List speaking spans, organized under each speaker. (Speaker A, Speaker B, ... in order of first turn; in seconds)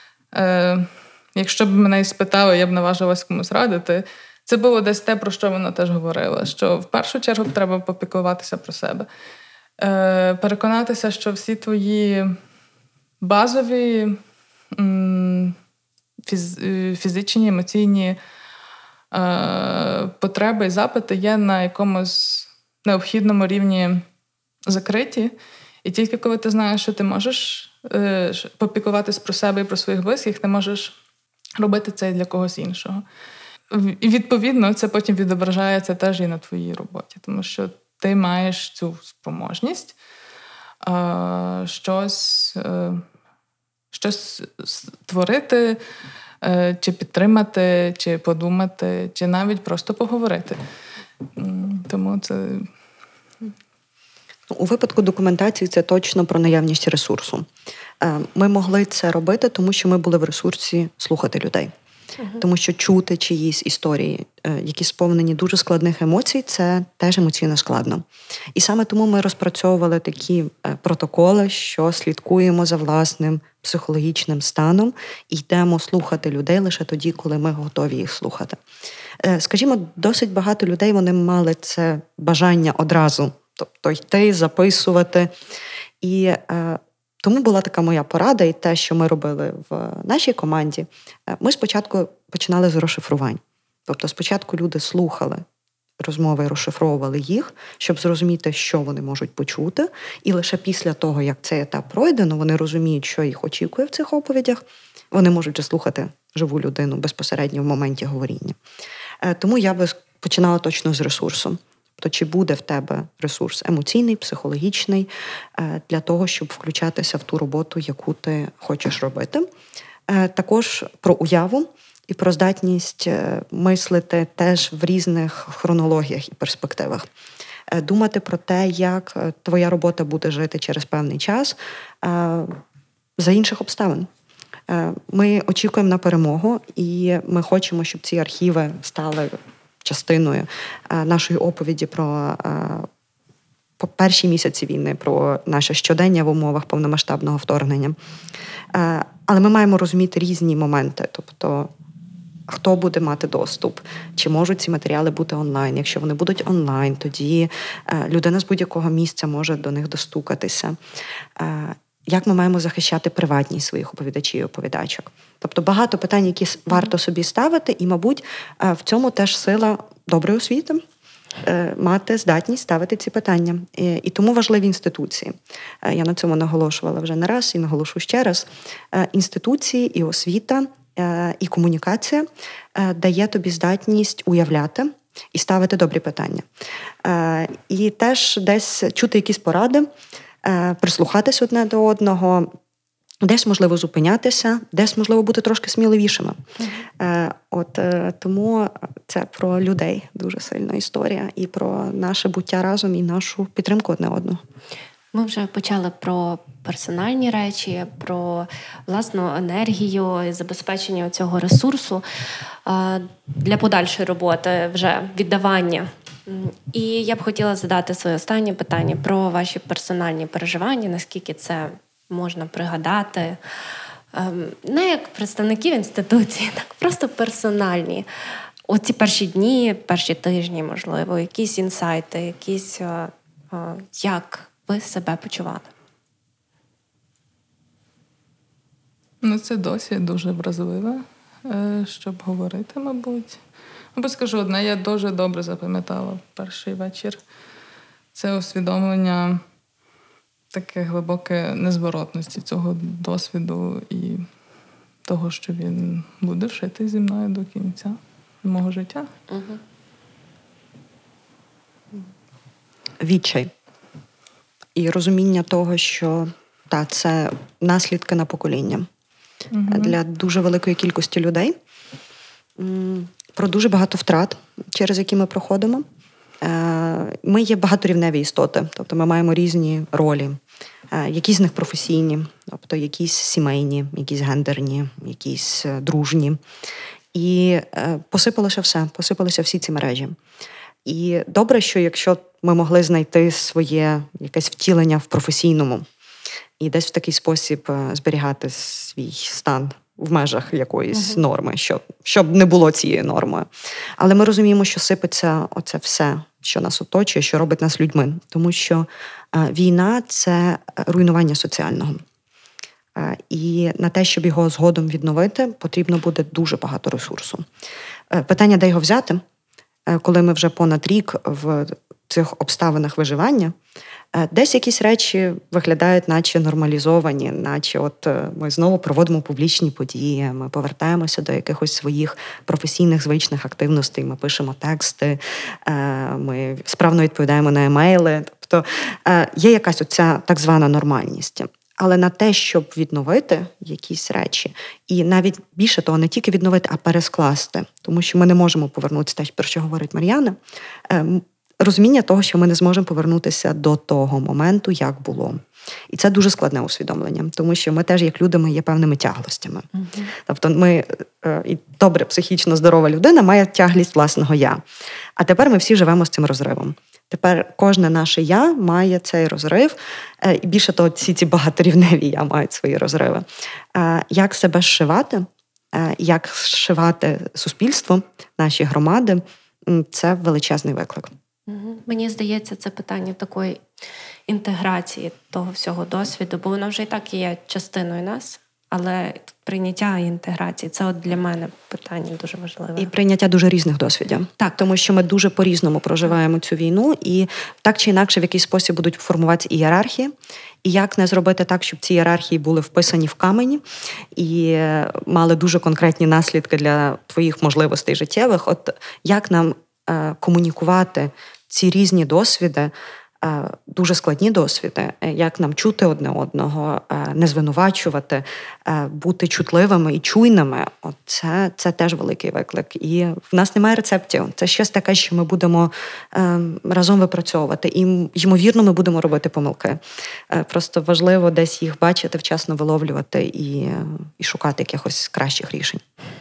Speaker A: 0.3-9.1, 9.8-12.4, 13.2-14.2, 14.7-15.6, 16.2-18.2, 19.1-24.0, 24.6-25.3, 25.8-30.9, 31.6-33.0, 33.7-39.9, 40.8-43.0, 43.9-45.8, 46.4-50.6, 51.4-52.7, 239.2-243.4, 243.9-247.2, 248.1-249.4, 250.5-254.2, 255.1-259.1, 269.5-270.0
Speaker B: 54.5-57.5, 58.0-61.7, 62.4-78.6, 79.2-85.3, 86.0-95.4, 96.0-108.6, 109.2-119.5, 120.1-127.1, 127.7-132.6, 133.2-134.1, 134.7-142.9, 143.8-148.0, 148.7-151.7, 152.5-160.8, 161.4-170.8, 171.4-186.4, 187.0-189.9, 190.4-192.5, 193.2-196.4, 197.0-204.4, 263.0-263.5, 264.7-268.9, 269.7-271.5, 272.6-275.8, 276.4-280.4, 280.9-286.4, 287.1-290.1, 290.8-295.9, 296.6-312.0, 312.9-317.4, 318.1-319.2, 319.9-323.5, 324.1-364.6, 365.2-381.1, 392.8-403.6, 404.1-435.8
Speaker C: 196.6-196.9, 205.1-212.0, 212.7-223.4, 224.1-228.1, 228.7-235.7, 259.3-259.6, 300.9-301.2, 359.8-360.1, 381.5-383.6, 384.3-392.9